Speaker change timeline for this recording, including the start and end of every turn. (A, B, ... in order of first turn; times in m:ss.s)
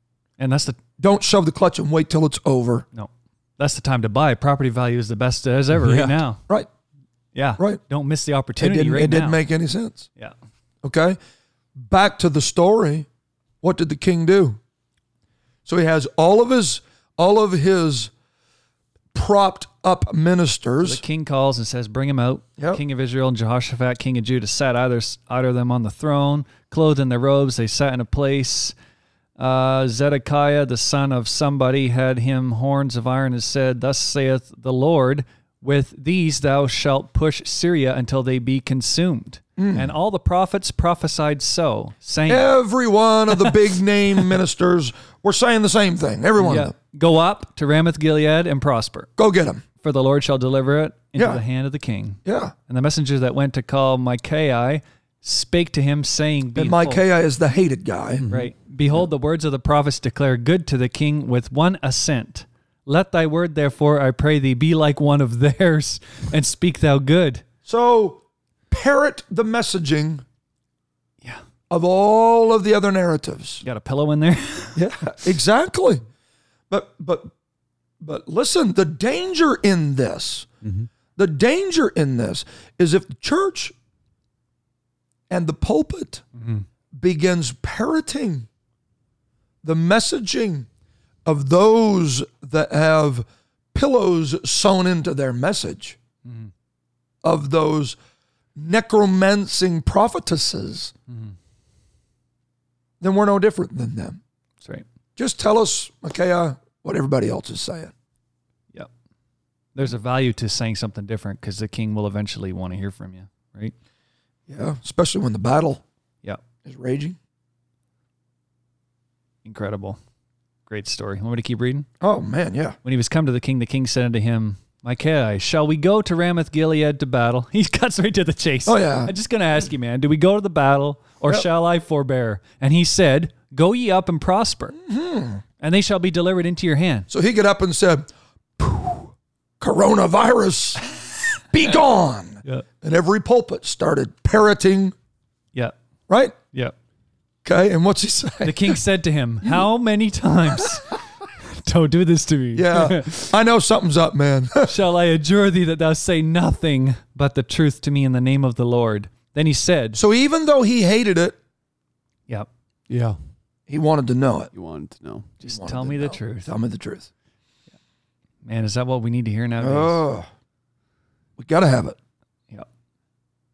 0:00.4-0:00.8 A
0:01.0-0:02.9 B
0:02.9-0:06.4 A
0:05.7-0:06.2 C
0:07.4-0:09.4 A
0:08.6-0:10.1 B
0:10.8-0:11.2 B
0:11.8-0:13.1 B
0:13.6-0:14.6 B
0:15.7-0:18.1 B
0:19.1-0:21.0 B
0:20.8-0:28.8 A
0:29.4-0:42.5 A
0:39.6-0:39.9 B
0:42.3-0:46.7 B
0:46.4-0:49.1 A
0:49.2-0:49.6 B
0:49.8-0:57.0 A
0:51.2-0:51.4 B
0:52.2-0:52.5 B
0:56.6-0:58.3 B
0:58.2-0:58.5 C
0:58.3-1:07.5 A
1:07.6-1:10.2 B
1:11.7-1:13.6 B
1:13.6-1:14.8 A
1:14.8-1:16.0 B
1:16.7-1:17.3 B
1:18.0-1:20.5 B
1:21.2-1:23.7 B
1:25.3-1:26.2 B
1:26.4-1:26.7 A
1:26.9-1:28.5 B
1:29.6-1:30.7 B
1:31.2-1:36.0 B
1:36.3-1:36.5 A
1:37.2-1:38.0 B
1:38.6-1:40.9 B
1:41.1-1:41.4 A
1:43.0-1:44.2 B
1:45.2-1:47.9 B
1:49.8-1:53.7 A
1:54.5-1:55.8 B
1:56.6-1:57.2 B
1:59.4-2:00.0 A
2:00.7-2:01.9 A
2:02.0-2:02.8 B
2:02.8-2:14.8 A
2:08.7-2:09.1 B
2:14.8-2:15.4 B
2:15.6-2:17.1 A
2:17.1-2:24.9 B
2:26.1-2:26.4 B
2:27.4-2:28.8 B
2:28.4-2:33.3 A
2:32.5-2:34.7 B
2:34.6-2:40.0 A
2:40.0-2:41.4 B
2:42.9-2:43.2 C
2:43.7-2:44.5 B
2:44.5-2:45.3 C
2:45.4-2:46.5 A
2:45.4-2:47.1 B
2:48.4-2:50.0 A
2:49.6-2:50.3 B
2:51.4-2:52.0 B